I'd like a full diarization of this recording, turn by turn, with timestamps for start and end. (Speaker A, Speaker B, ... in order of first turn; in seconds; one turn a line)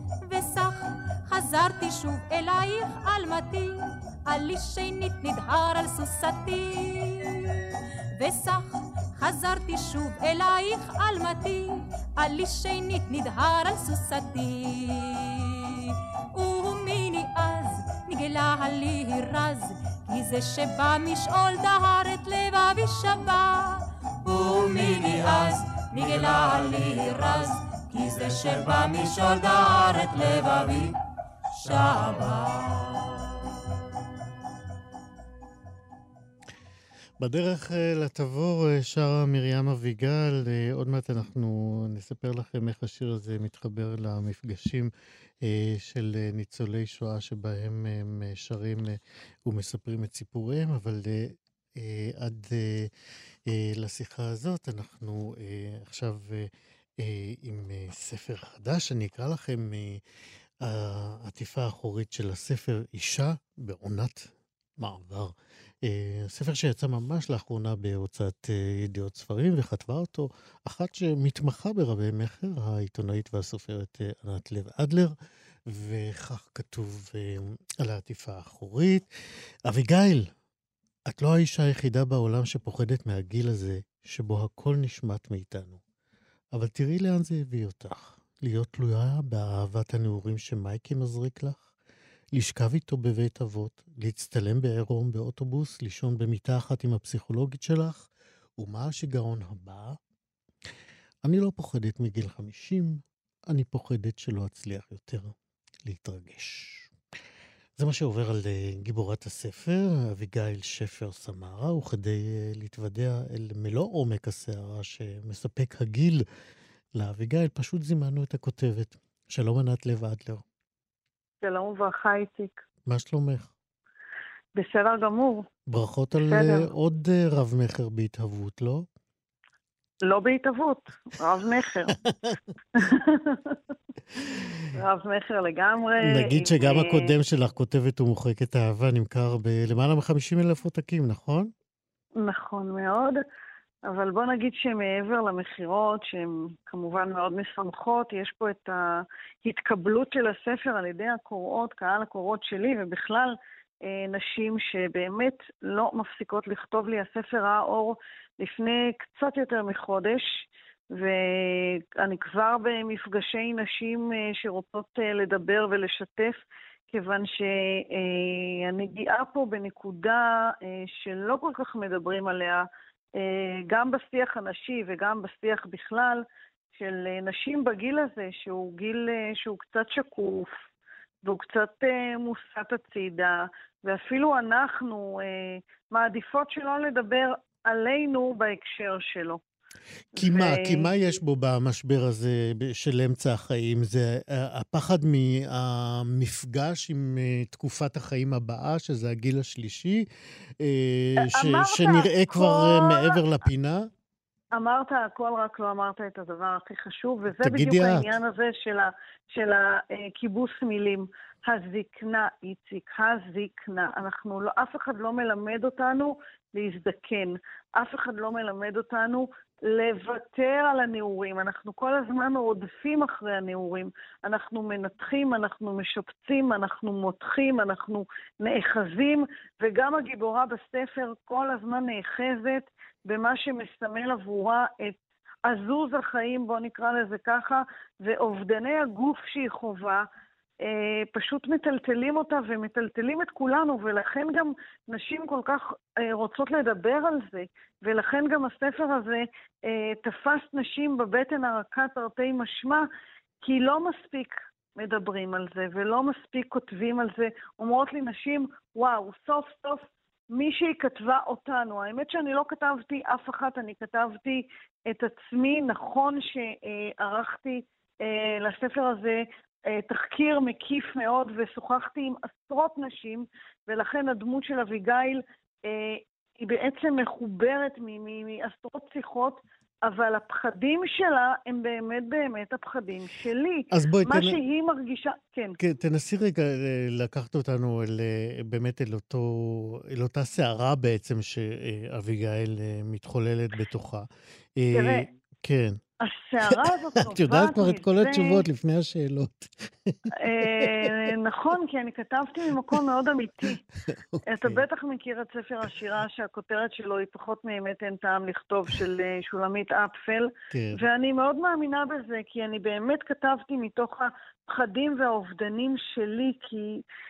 Speaker A: 0.2-31.0
Speaker A: 31.5-33.4
Speaker B: 37.2-44.9
Speaker B: 45.4-52.9
Speaker B: 53.5-60.0
Speaker B: 60.6-75.1
Speaker B: 75.7-79.1
Speaker B: 79.7-80.3
Speaker B: 81.1-85.8
Speaker B: 86.5-91.7
Speaker B: 92.3-100.0
Speaker B: 101.2-105.3
Speaker B: 105.8-106.9
Speaker B: 107.8-116.2
Speaker B: 117.0-120.4
Speaker C: 121.4-122.6
Speaker B: 122.9-123.5
Speaker C: 124.6-125.5
Speaker B: 125.7-128.9
Speaker C: 126.3-126.7
Speaker C: 130.0-132.0
Speaker B: 132.0-132.4
Speaker C: 132.8-133.6
Speaker C: 134.4-137.1
Speaker B: 136.0-141.5
Speaker C: 142.2-143.2
Speaker C: 143.8-172.7
Speaker C: 173.2-176.2
Speaker C: 176.7-180.5
Speaker C: 181.2-189.4
Speaker B: 190.2-200.1
Speaker C: 190.2-190.9
Speaker B: 200.6-203.9
Speaker C: 201.2-203.2
Speaker C: 204.5-240.1
Speaker B: 207.3-208.2
Speaker C: 240.6-252.9
Speaker C: 253.4-285.6
Speaker B: 283.7-284.4
Speaker B: 285.6-295.8
Speaker C: 294.7-295.1
Speaker C: 296.0-298.4
Speaker B: 296.4-300.9
Speaker C: 300.2-303.6
Speaker B: 303.9-304.6
Speaker C: 304.3-316.8
Speaker B: 310.5-310.8